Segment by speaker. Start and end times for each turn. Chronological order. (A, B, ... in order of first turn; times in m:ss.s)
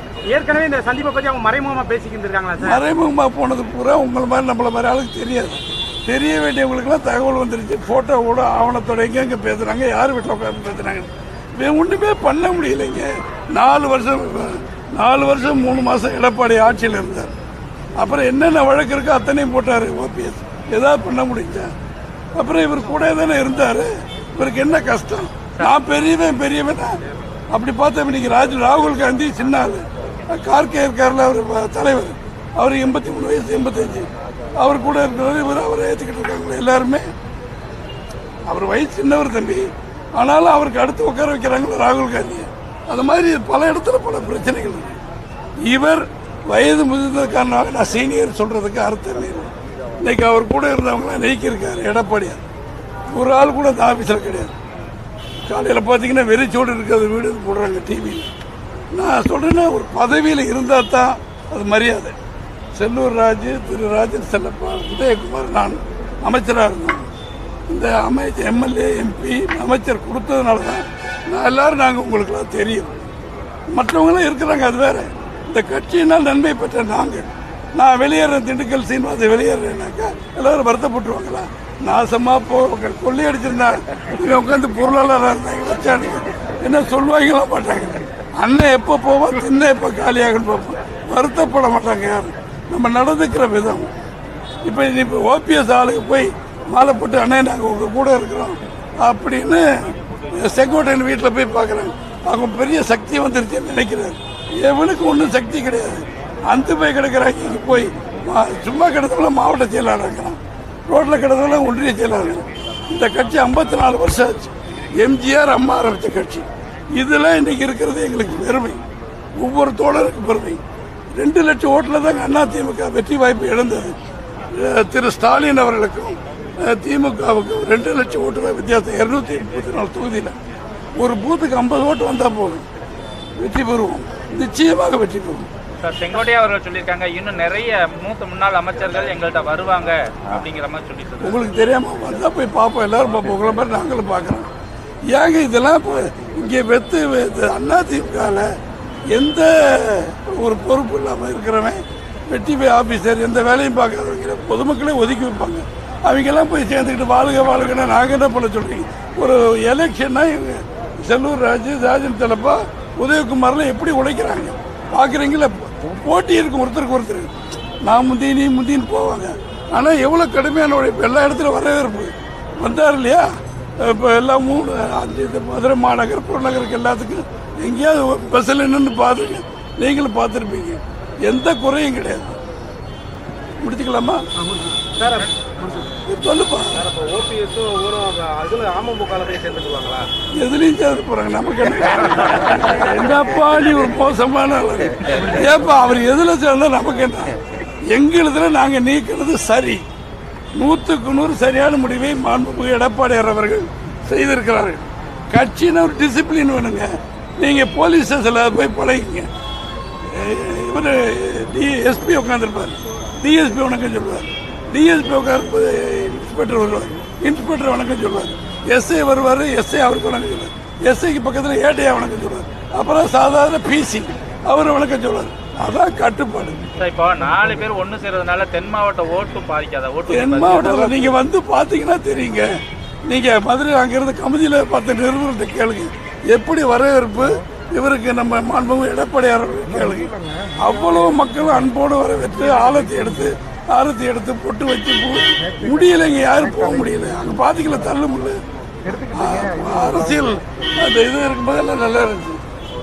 0:00.3-0:02.8 A
0:02.6-0:17.3 B
0:18.0-0:21.7 B
0:22.4-0:27.0 B
0:27.5-0:37.1 B
0:38.5-0:44.9 B
0:45.6-0:52.4 B
0:53.1-0:54.5 B
0:55.5-0:58.3 B
0:58.9-1:02.2 B
1:02.8-1:07.0 B
1:07.7-1:13.0 B
1:13.7-1:33.9 B
1:34.6-1:58.8 B
1:59.4-2:00.6 B
2:01.1-2:03.9 B
2:04.5-2:10.4 B
2:11.0-2:12.6 B
2:13.4-2:15.5 B
2:15.8-2:21.4 C
2:21.2-2:24.5 B
2:25.1-2:28.5 B
2:29.1-2:47.3 B
2:47.8-2:53.3 B
2:53.8-3:02.4 B
3:03.6-3:04.2 B
3:04.8-3:05.5 D
3:06.1-3:06.8 B
3:06.7-3:10.1 D
3:10.4-3:17.4 B
3:17.9-3:19.8 B
3:20.6-3:29.3 B
3:30.1-3:46.6 B
3:46.8-3:51.1 C
3:50.1-3:52.5 B
3:53.1-4:08.4 B
4:08.9-4:12.4 B